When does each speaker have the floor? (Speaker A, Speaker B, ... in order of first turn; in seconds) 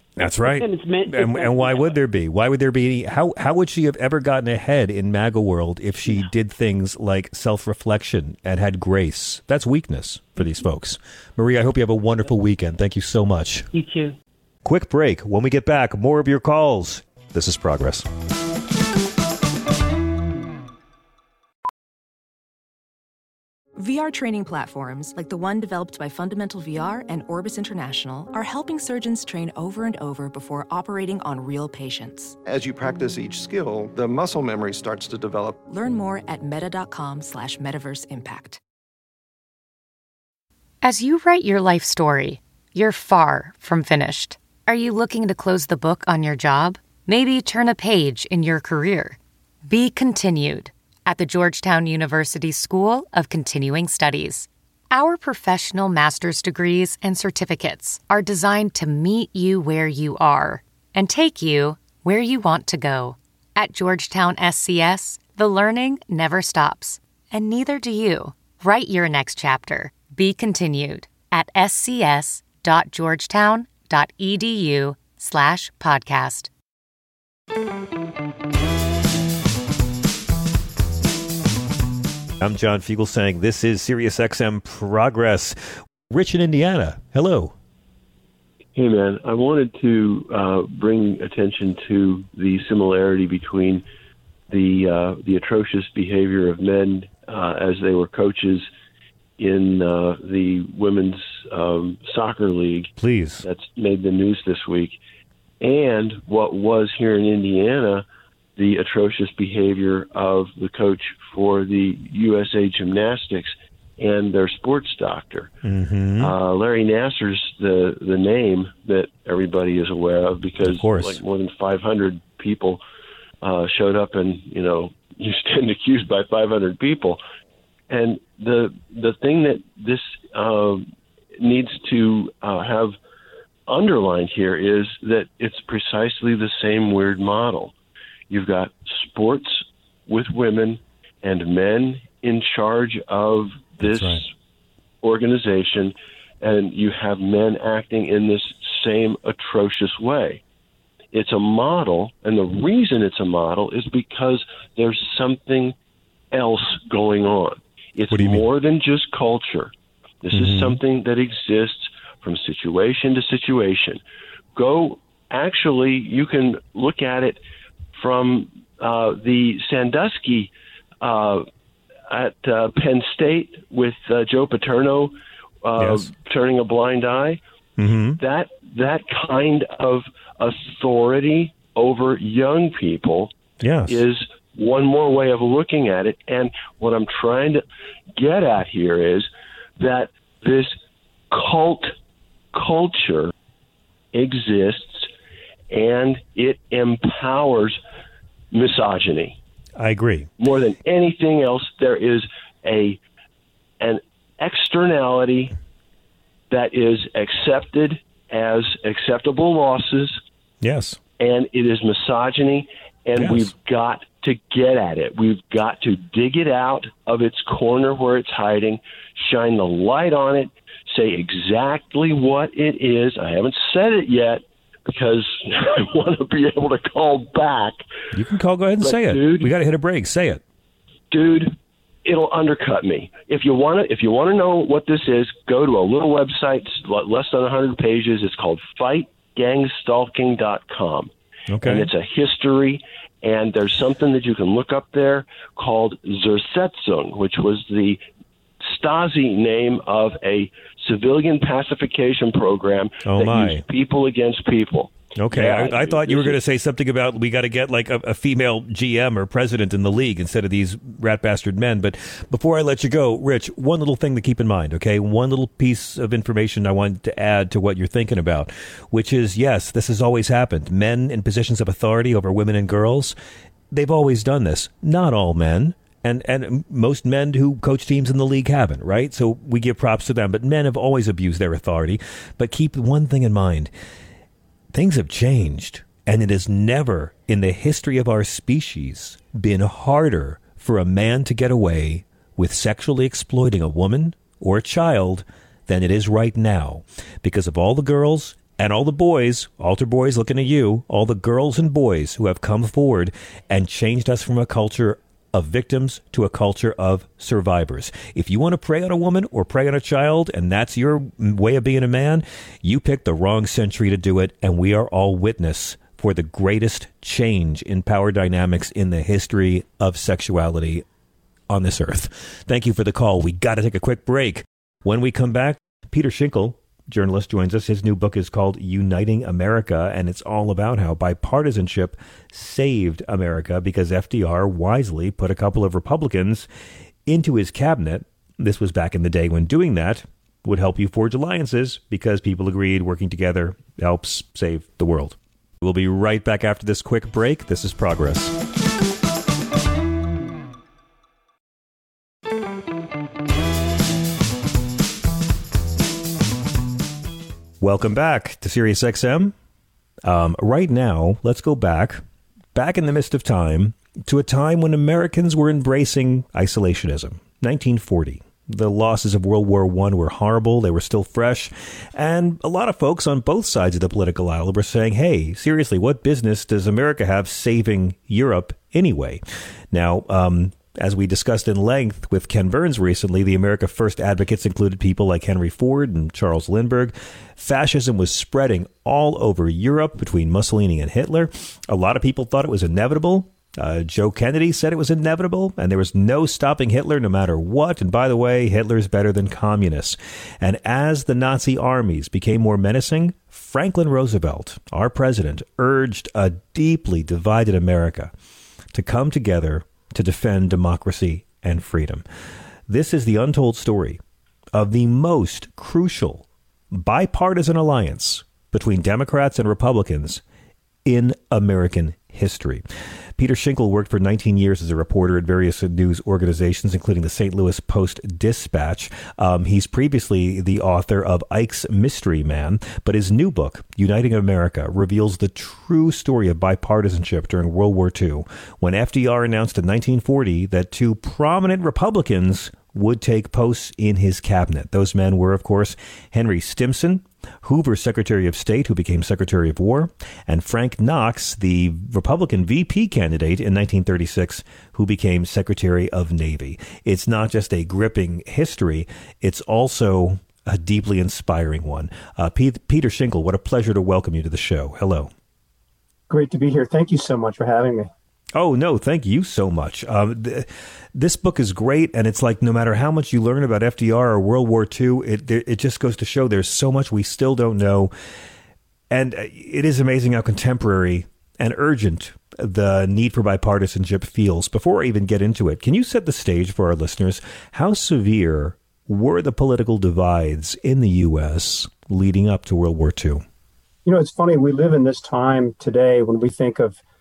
Speaker A: 0.2-13.7, 14.6-18.1, 82.4-85.6, 86.1-87.5, 103.0-103.4, 115.6-116.3, 120.6-121.2, 143.8-144.2, 158.1-158.4, 160.3-160.8, 175.8-176.1, 177.8-178.2, 183.6-184.0, 199.8-200.3, 210.6-211.0, 213.2-213.5, 228.1-230.4, 241.5-241.9, 253.0-253.6, 255.2-273.1, 273.7-283.7, 284.7-320.8, 321.5-336.4, 337.1-348.3, 357.6-359.3, 360.0-362.0, 362.5-408.1, 408.7-412.0, 412.7-414.0, 414.5-420.2, 420.9-422.6, 423.2-465.1, 468.3-477.9, 478.9-493.2
Speaker B: 0.4-2.0, 13.7-14.2
Speaker C: 23.8-32.4, 35.7-38.6
Speaker D: 32.4-35.6
Speaker E: 40.8-76.5
Speaker F: 88.7-93.8, 94.5-98.7, 99.4-102.9, 103.4-105.0, 105.6-108.0, 108.6-115.5, 116.2-122.8, 123.4-127.2, 127.9-133.0, 133.7-137.7, 138.3-144.3, 145.0-150.4, 151.1-155.8, 156.3-164.0, 164.6-167.4, 167.9-171.4, 172.1-177.4, 178.2-187.6, 188.2-190.7, 191.3-191.9, 192.5-193.3, 194.1-195.1, 195.7-197.8, 198.5-199.4, 200.4-203.0, 203.8-205.5, 206.5-210.2, 211.2-227.8, 228.8-229.5, 231.1-231.5, 232.0-248.0, 248.6-256.4
Speaker G: 466.1-467.9, 493.9-496.8